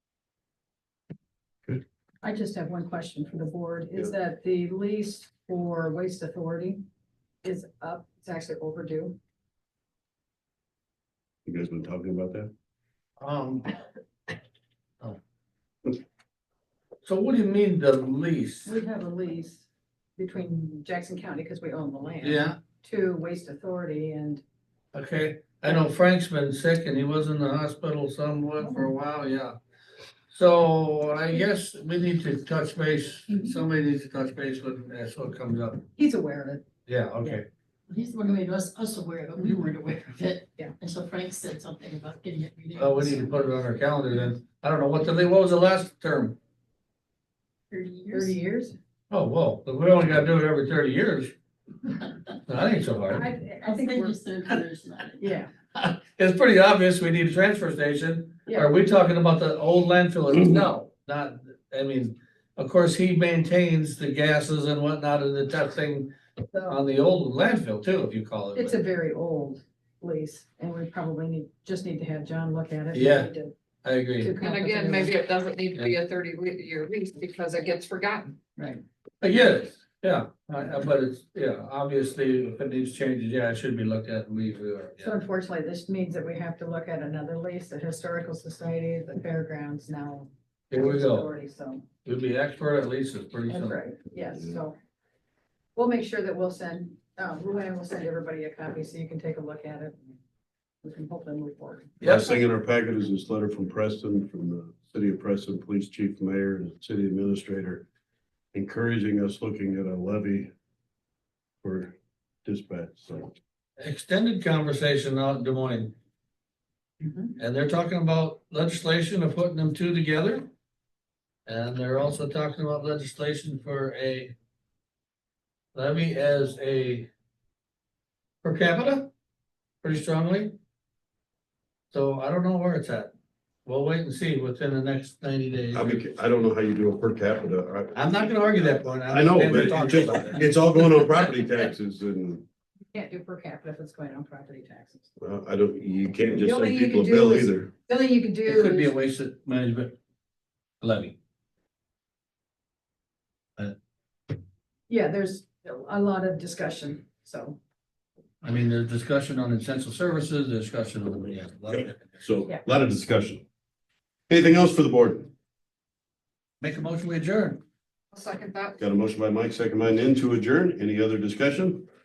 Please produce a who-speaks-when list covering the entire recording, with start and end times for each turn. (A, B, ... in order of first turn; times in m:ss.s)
0:02.2-0:06.8 A
0:07.4-0:09.2 A
0:11.4-0:12.5 B
0:13.2-0:13.7 C
0:17.0-0:18.7 C
0:18.6-0:19.6 A
0:20.2-0:24.4 A
0:22.2-0:22.6 C
0:24.9-0:29.5 C
0:28.6-0:28.9 A
0:30.3-0:35.8 C
0:33.3-0:33.6 A
0:36.0-0:36.6 A
0:36.9-0:37.4 C
0:37.9-0:43.6 D
0:42.8-0:46.4 C
0:47.7-0:48.4 D
0:48.1-0:48.8 A
0:49.1-0:51.3 C
0:52.4-0:53.2 C
0:53.1-0:54.2 A
0:53.6-0:55.4 D
0:55.2-0:55.5 A
0:55.8-1:06.1 C
0:58.5-0:58.7 A
1:06.5-1:06.8 A
1:06.6-1:08.8 C
1:08.5-1:13.5 A
1:12.9-1:13.3 C
1:13.8-1:14.3 C
1:14.2-1:15.1 A
1:14.4-1:18.4 E
1:18.6-1:18.8 A
1:19.2-1:25.1 C
1:25.0-1:31.8 A
1:30.7-1:31.3 C
1:32.0-1:33.8 C
1:33.5-1:34.8 A
1:35.7-1:40.2 A
1:40.8-1:42.0 A
1:42.0-1:42.4 C
1:42.0-1:47.8 B
1:48.5-1:50.5 B
1:51.6-1:53.3 B
1:53.8-1:55.9 C
1:57.0-1:57.4 A
1:57.4-2:00.5 C
2:01.4-2:04.3 C
2:05.7-2:07.1 C
2:08.4-2:09.1 C
2:09.8-2:10.6 C
2:11.9-2:13.1 C
2:13.6-2:16.0 C
2:15.7-2:18.0 B
2:17.9-2:21.3 C
2:19.1-2:22.4 B
2:22.9-2:25.1 A
2:25.2-2:27.7 B
2:26.4-2:28.9 A
2:28.4-2:30.0 C
2:30.8-2:31.1 C
2:34.9-2:37.6 A
2:38.4-2:42.2 C
2:42.2-2:43.4 B
2:44.3-2:45.3 B
2:46.6-2:47.6 C
2:48.1-2:48.8 E
2:48.8-2:51.9 B